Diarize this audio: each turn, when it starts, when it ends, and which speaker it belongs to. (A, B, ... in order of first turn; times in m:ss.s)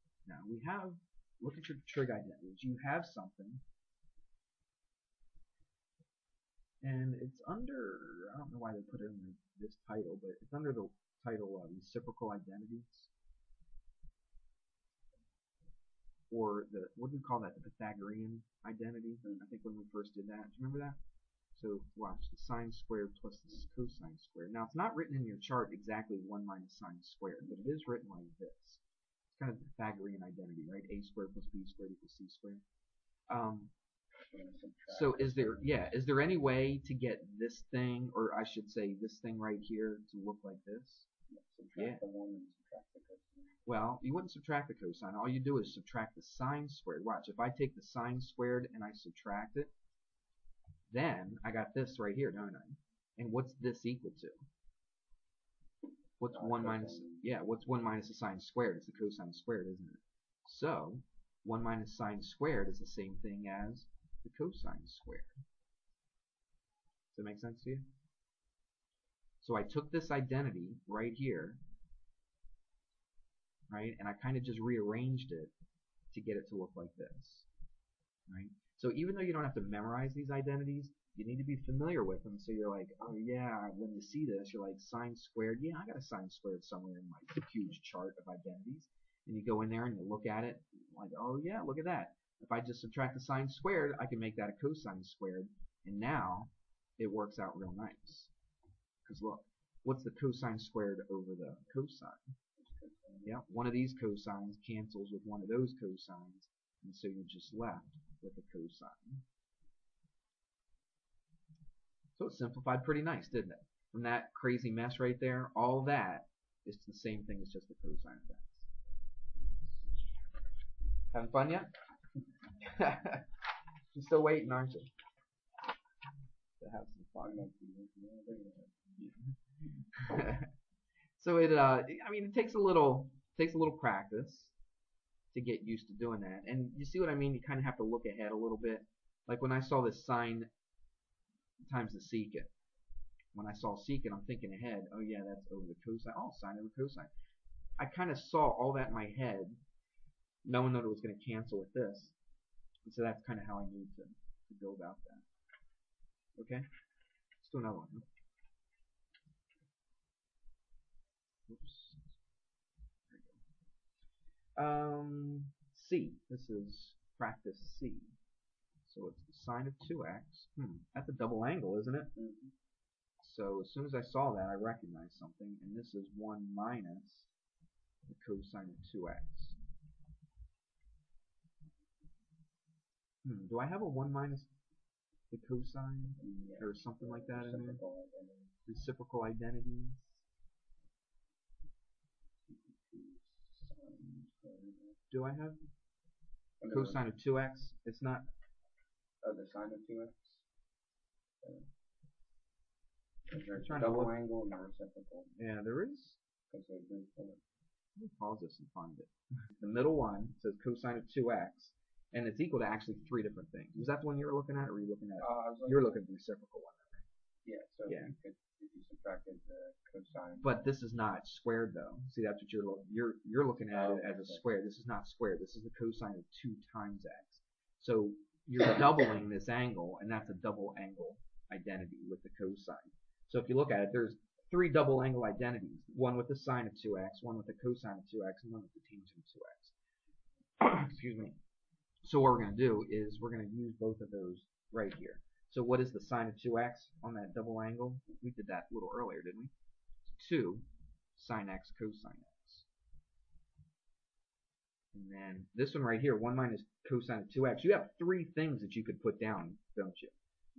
0:00.3-0:03.6 A
0:06.8-0:13.1 A
0:16.3-0:21.0 A
0:21.5-0:28.8 A
0:29.3-0:32.6 A
0:33.3-0:33.7 A
0:34.2-0:35.9 B
0:34.9-0:41.1 A
0:41.3-0:43.6 B
0:41.8-0:42.0 A
0:43.7-0:49.7 A
0:50.9-0:54.5 A
0:56.2-1:05.3 A
0:56.3-0:57.2 B
1:07.1-1:07.8 A
1:09.4-1:11.6 A
1:13.7-1:15.5 A
1:16.1-1:17.5 A
1:18.3-1:38.3 A
1:39.0-1:42.2 A
1:42.6-1:43.4 B
1:43.2-1:49.2 A
1:52.2-1:58.7 A
2:01.1-2:01.7 A
2:02.6-2:03.3 A
2:03.9-2:04.9 A
2:06.6-2:07.4 A
2:07.2-2:08.9 B
2:10.0-2:10.5 A
2:11.2-2:14.5 A
2:15.3-2:20.5 A
2:21.6-2:22.5 A
2:23.3-2:27.1 A
2:27.8-2:29.6 A
2:30.4-2:32.2 A
2:32.8-2:35.2 A
2:36.4-2:36.6 A
2:37.4-2:38.1 A
2:41.5-2:42.1 A
2:43.1-2:43.4 A
2:44.6-2:48.1 A
2:48.9-2:52.1 A
2:52.2-2:52.5 B
2:53.2-2:57.3 A
2:58.1-2:59.6 A
3:03.2-3:04.5 A
3:05.3-3:07.8 A
3:06.2-3:08.6 B
3:08.7-3:10.2 A
3:12.5-3:15.0 B
3:15.1-3:15.6 A
3:16.6-3:17.0 B
3:16.7-3:18.2 A
3:19.2-3:20.4 B
3:21.4-3:21.7 B
3:23.3-3:25.4 B
3:23.6-3:24.1 A
3:25.4-3:26.2 A
3:26.5-3:27.4 B
3:28.0-3:37.0 A
3:35.2-3:36.2 B
3:37.4-3:40.5 B
3:37.9-3:38.1 A
3:40.4-3:59.8 A
3:43.7-3:44.4 B
4:00.6-4:01.4 A
4:02.0-4:09.5 A
4:10.1-4:12.7 A
4:14.9-4:20.1 A